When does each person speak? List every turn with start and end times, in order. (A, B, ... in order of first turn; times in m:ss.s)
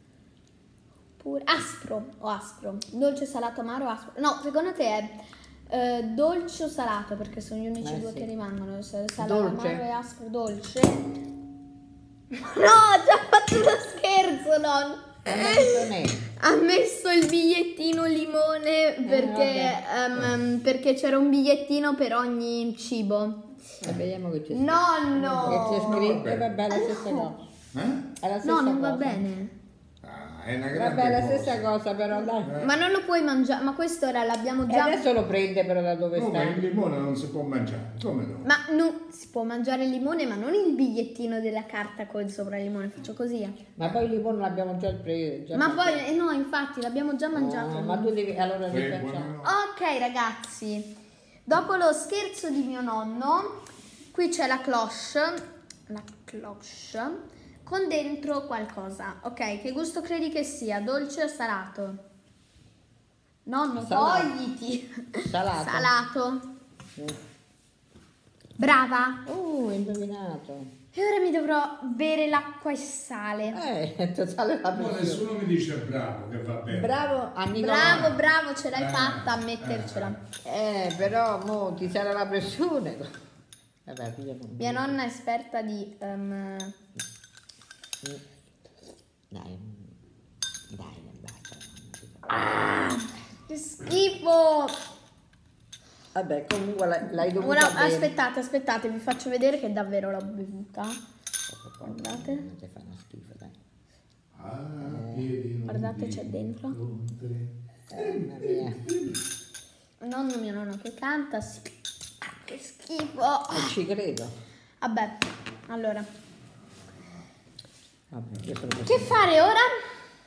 0:01.2-0:11.0 A
0:07.8-0:08.3 B
0:09.2-0:09.8 B
0:12.3-0:15.8 A
0:15.2-0:16.2 B
0:16.4-0:23.5 A
0:19.0-0:19.8 B
0:23.8-0:27.5 B
0:24.5-0:27.3 A
0:25.3-0:26.5 C
0:27.7-0:28.0 C
0:28.2-0:29.2 B
0:28.4-0:29.5 A
0:30.0-0:31.6 C
0:30.7-0:32.5 B
0:32.4-0:32.7 C
0:32.5-0:35.0 A
0:34.7-0:36.6 B
0:36.1-0:38.5 C
0:38.4-0:43.6 A
0:43.8-0:46.0 B
0:45.5-0:48.1 A
0:47.3-0:49.3 B
0:48.7-0:49.5 C
0:49.4-0:50.9 A
0:51.5-0:53.6 A
0:54.1-1:02.0 A
1:03.4-1:06.4 A
1:03.8-1:04.3 B
1:05.2-1:05.9 B
1:08.6-1:09.2 A
1:09.2-1:10.7 B
1:10.9-1:13.6 A
1:13.5-1:15.3 B
1:14.7-1:17.0 C
1:16.7-1:18.2 B
1:17.5-1:20.2 A
1:17.7-1:18.2 C
1:18.7-1:20.1 C
1:20.4-1:23.1 B
1:23.8-1:25.0 B
1:24.6-1:26.8 A
1:29.3-1:29.9 B
1:30.7-1:32.8 B
1:32.3-1:34.8 A
1:36.1-1:38.1 B
1:37.4-1:41.0 A
1:41.5-1:43.6 B
1:41.8-1:42.4 A
1:44.3-1:48.2 C
1:44.8-1:45.3 B
1:45.7-1:46.8 A
1:47.9-1:49.1 B
1:50.0-1:53.7 A
1:53.5-1:54.3 B
1:54.8-1:56.0 A
1:58.1-1:59.3 B
1:58.8-1:59.7 A